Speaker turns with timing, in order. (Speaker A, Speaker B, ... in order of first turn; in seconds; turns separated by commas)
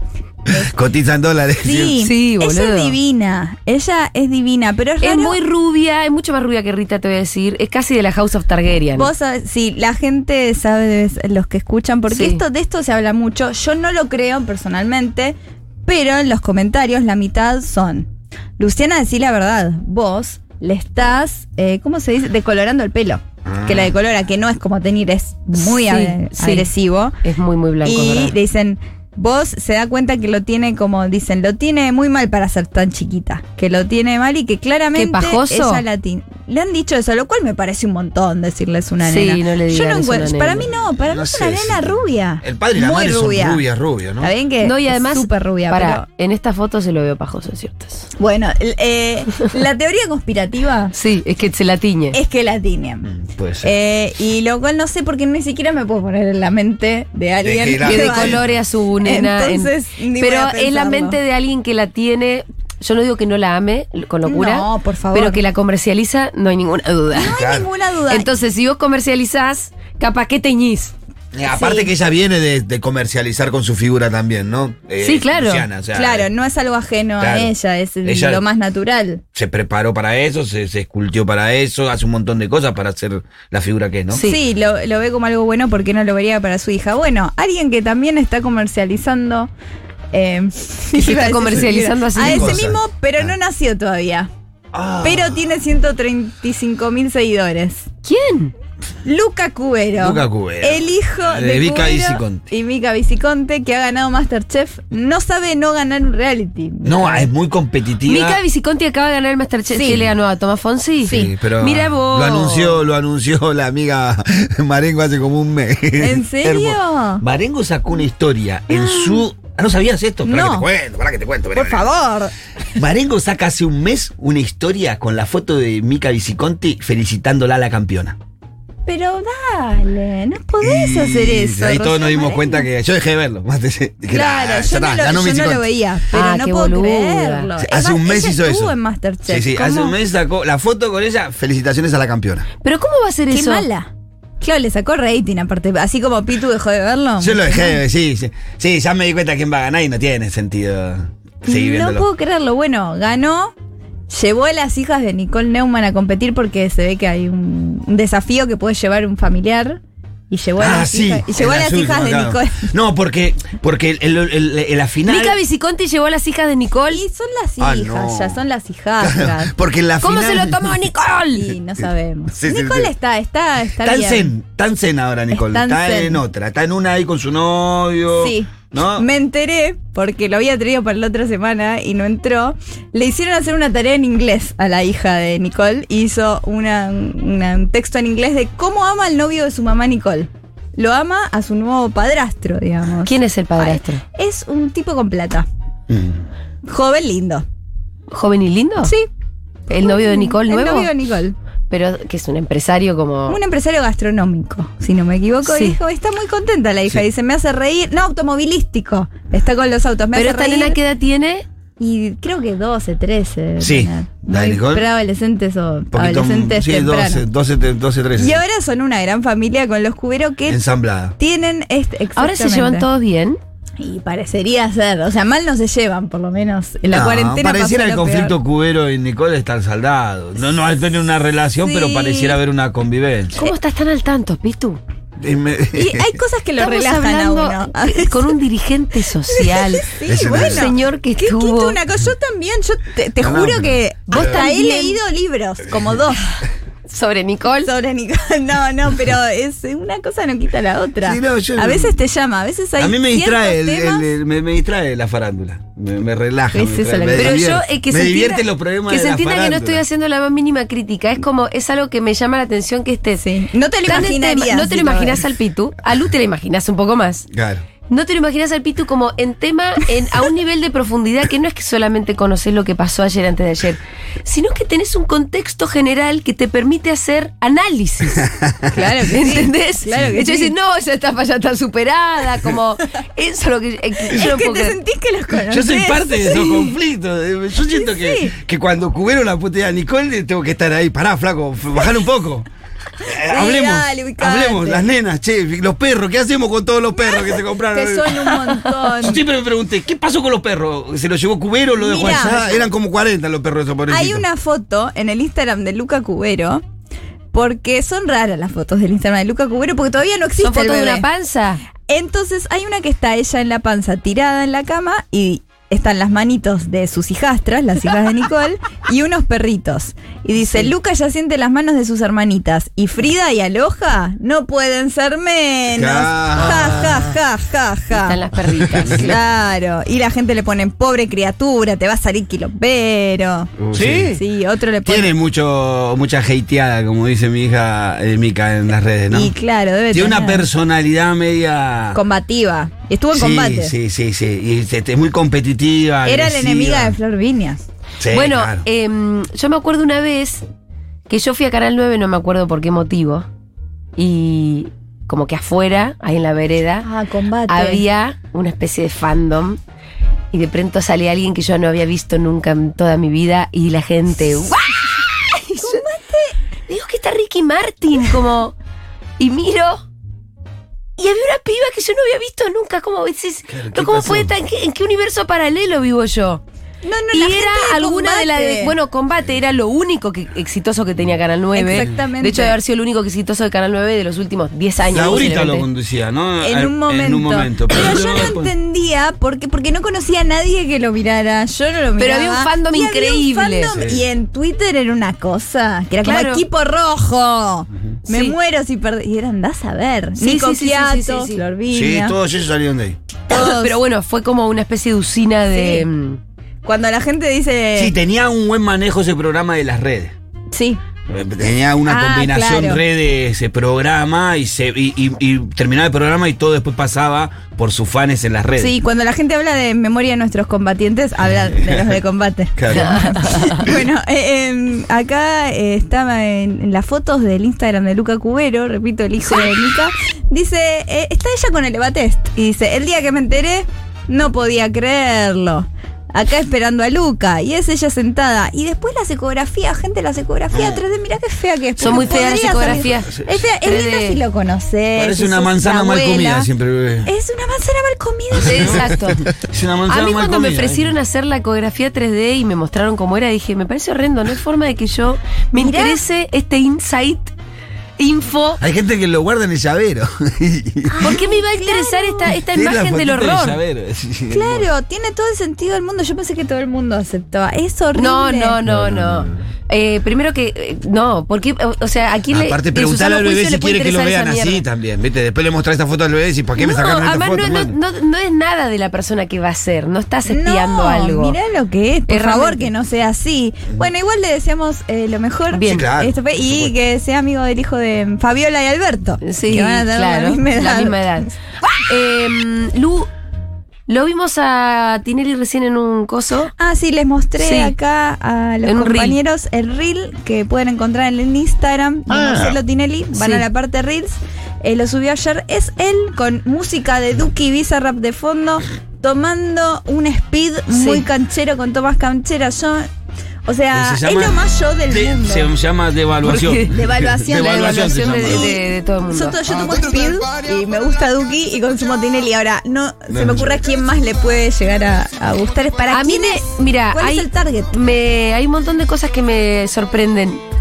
Speaker A: 0.5-2.0, Speaker B: 1.6-5.4, Speaker C: 2.0-3.0, Speaker C: 5.0-9.1, Speaker B: 8.9-27.2, Speaker C: 12.1-12.4, Speaker A: 23.4-23.9, Speaker C: 25.6-26.7, Speaker C: 27.2-28.3, Speaker B: 27.8-43.6, Speaker C: 34.9-35.8, Speaker C: 39.0-40.7, Speaker A: 41.0-44.3, Speaker B: 44.2-46.0, Speaker C: 44.6-48.1, Speaker B: 48.2-50.9, Speaker C: 50.9-52.2, Speaker B: 52.1-53.1, Speaker A: 53.0-53.7, Speaker B: 53.6-58.4, Speaker A: 57.4-58.5, Speaker C: 57.8-67.4, Speaker B: 59.0-61.2, Speaker B: 64.2-65.4, Speaker B: 67.1-68.3, Speaker A: 67.3-67.7, Speaker C: 68.1-70.9, Speaker A: 71.3-76.3, Speaker B: 71.5-71.9, Speaker C: 75.0-75.7, Speaker B: 75.9-79.2, Speaker A: 77.2-77.5, Speaker A: 78.0-78.4, Speaker A: 79.3-84.2, Speaker B: 84.1-89.5, Speaker B: 90.1-94.3, Speaker C: 90.9-92.6, Speaker A: 92.1-93.3, Speaker A: 94.7-95.5, Speaker B: 95.0-97.9, Speaker C: 98.0-98.5, Speaker B: 99.0-107.3, Speaker A: 100.0-102.5, Speaker A: 106.8-108.4, Speaker C: 108.0-112.8, Speaker B: 109.7-110.0, Speaker A: 111.0-121.9, Speaker B: 111.0-111.3, Speaker B: 116.0-117.2, Speaker B: 118.7-119.2, Speaker B: 120.2-120.7, Speaker B: 121.5-122.3, Speaker A: 122.7-128.2, Speaker B: 128.8-132.7, Speaker A: 130.6-135.7, Speaker B: 134.1-139.9, Speaker C: 136.1-137.5, Speaker A: 137.6-138.7, Speaker A: 139.2-142.5, Speaker C: 142.6-143.7, Speaker B: 143.3-147.8, Speaker A: 147.2-152.1, Speaker B: 151.4-153.5, Speaker B: 154.1-162.7, Speaker A: 160.6-165.4, Speaker C: 165.1-167.0, Speaker B: 166.9-169.5, Speaker A: 167.6-168.4, Speaker A: 169.0-170.9, Speaker C: 170.0-171.6, Speaker B: 171.3-174.3, Speaker A: 172.3-172.9, Speaker A: 173.8-179.1, Speaker B: 175.3-176.2, Speaker B: 178.1-195.4, Speaker C: 193.0-194.0, Speaker A: 195.9-196.2, Speaker B: 196.7-197.4, Speaker C: 198.1-198.9, Speaker B: 198.8-199.1, Speaker C: 199.7-200.9, Speaker B: 199.7-201.3, Speaker C: 201.7-203.4, Speaker B: 203.3-210.8, Speaker C: 205.4-205.8, Speaker C: 210.1-211.4, Speaker B: 211.8-217.2, Speaker A: 213.6-214.8, Speaker A: 215.9-218.4, Speaker B: 218.2-220.6, Speaker A: 220.5-221.1, Speaker B: 221.2-222.8, Speaker C: 222.2-223.4, Speaker B: 223.8-228.3, Speaker A: 226.9-233.3, Speaker B: 231.6-232.4, Speaker C: 233.3-234.8, Speaker A: 235.2-236.2, Speaker B: 235.7-238.3, Speaker C: 236.6-241.8, Speaker B: 239.3-246.3, Speaker A: 240.0-240.7, Speaker A: 243.2-244.4, Speaker C: 244.1-245.0, Speaker C: 246.9-247.7, Speaker B: 247.6-254.1, Speaker A: 251.0-252.0, Speaker A: 252.8-259.8, Speaker B: 256.5-257.5, Speaker C: 257.1-263.2, Speaker B: 263.2-265.2, Speaker C: 263.9-267.3, Speaker A: 267.3-267.6, Speaker C: 267.9-284.8, Speaker A: 278.2-278.8, Speaker B: 278.7-280.5, Speaker B: 284.0-286.5, Speaker A: 285.5-292.5, Speaker C: 286.3-286.7, Speaker B: 287.7-288.3, Speaker A: 293.0-298.4, Speaker B: 293.0-294.9, Speaker B: 296.9-299.2, Speaker A: 298.9-304.2, Speaker B: 301.8-302.7, Speaker B: 303.9-306.6, Speaker B: 307.3-311.1, Speaker C: 310.4-311.6, Speaker B: 311.9-328.2, Speaker C: 320.4-320.7, Speaker A: 325.7-327.0, Speaker C: 326.4-327.1, Speaker C: 327.9-329.1, Speaker A: 328.7-329.1, Speaker B: 328.8-335.1, Speaker A: 333.6-334.2, Speaker A: 334.8-339.3, Speaker B: 339.1-340.5, Speaker A: 339.9-342.0, Speaker B: 341.9-343.7, Speaker A: 343.1-346.9, Speaker B: 346.0-347.6, Speaker A: 348.0-348.6, Speaker C: 348.1-350.4, Speaker C: 351.1-353.3, Speaker C: 354.0-356.9, Speaker B: 356.8-357.8, Speaker C: 357.5-359.6, Speaker C: 360.3-365.8, Speaker B: 365.6-366.4, Speaker C: 366.7-368.5, Speaker C: 369.2-369.8, Speaker C: 371.0-376.4, Speaker A: 373.5-374.3, Speaker B: 376.8-378.7, Speaker C: 377.1-385.7, Speaker B: 381.5-382.5, Speaker A: 384.9-388.5, Speaker B: 386.4-402.1, Speaker C: 392.0-393.8, Speaker A: 393.7-394.0, Speaker C: 396.0-396.4, Speaker C: 398.1-398.4, Speaker C: 400.2-401.4, Speaker A: 401.7-403.0, Speaker B: 403.3-403.8, Speaker C: 403.3-406.2, Speaker B: 405.5-405.9, Speaker B: 406.6-407.9, Speaker A: 407.8-410.1, Speaker B: 410.5-410.8, Speaker A: 411.1-418.7, Speaker B: 411.9-412.8, Speaker B: 418.6-446.5, Speaker A: 421.3-422.0, Speaker A: 422.6-423.6, Speaker C: 422.7-423.7, Speaker A: 440.5-440.8, Speaker C: 441.8-444.2, Speaker A: 441.8-443.4, Speaker A: 444.9-447.1, Speaker B: 447.0-448.9, Speaker A: 448.4-450.9, Speaker C: 448.4-449.3, Speaker C: 449.9-457.3, Speaker B: 455.5-456.0, Speaker C: 458.0-458.6, Speaker A: 458.6-461.1, Speaker B: 460.9-462.3, Speaker C: 461.0-463.6, Speaker A: 462.3-464.7, Speaker B: 464.3-468.6, Speaker C: 467.9-474.6, Speaker A: 468.6-469.4, Speaker A: 472.3-477.8, Speaker C: 476.6-481.4, Speaker B: 480.3-491.3, Speaker C: 482.1-482.7, Speaker C: 485.5-485.9, Speaker A: 485.6-486.7, Speaker C: 489.2-493.1, Speaker C: 493.9-496.5, Speaker B: 496.6-512.9, Speaker C: 497.4-497.7, Speaker C: 498.6-499.2, Speaker A: 502.1-502.6, Speaker C: 503.1-503.4, Speaker C: 510.7-511.1, Speaker B: 513.5-515.5, Speaker A: 513.7-518.6, Speaker C: 516.2-516.7, Speaker B: 516.7-518.6, Speaker C: 517.3-519.4, Speaker B: 519.1-527.7, Speaker A: 523.1-523.5, Speaker C: 525.9-530.4